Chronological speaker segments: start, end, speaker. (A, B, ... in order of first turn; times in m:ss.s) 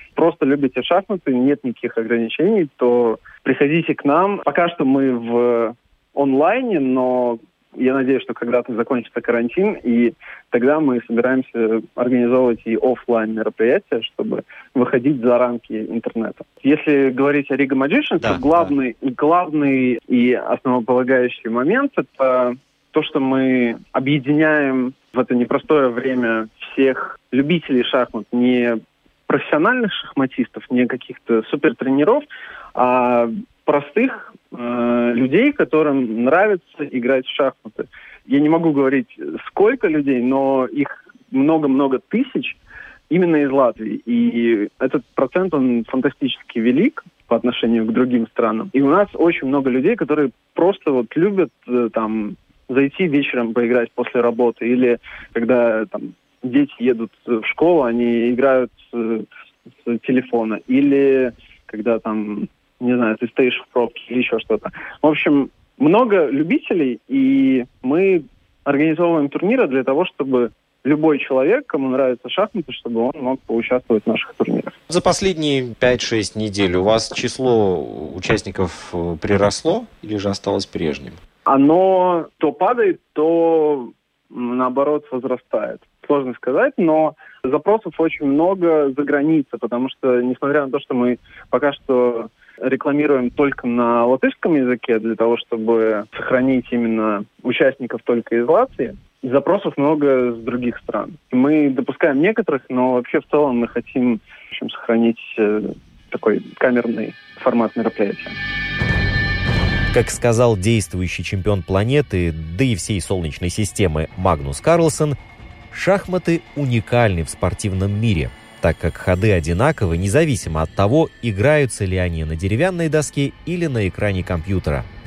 0:00.1-0:42.6 A
0:18.2-0:18.7 B
0:43.1-0:59.3 A
0:59.8-1:14.8 A
1:14.9-1:21.2 C
1:16.3-1:16.5 B
1:17.2-1:17.5 B
1:21.4-1:48.4 A
1:49.9-1:55.2 B
1:55.7-2:04.9 B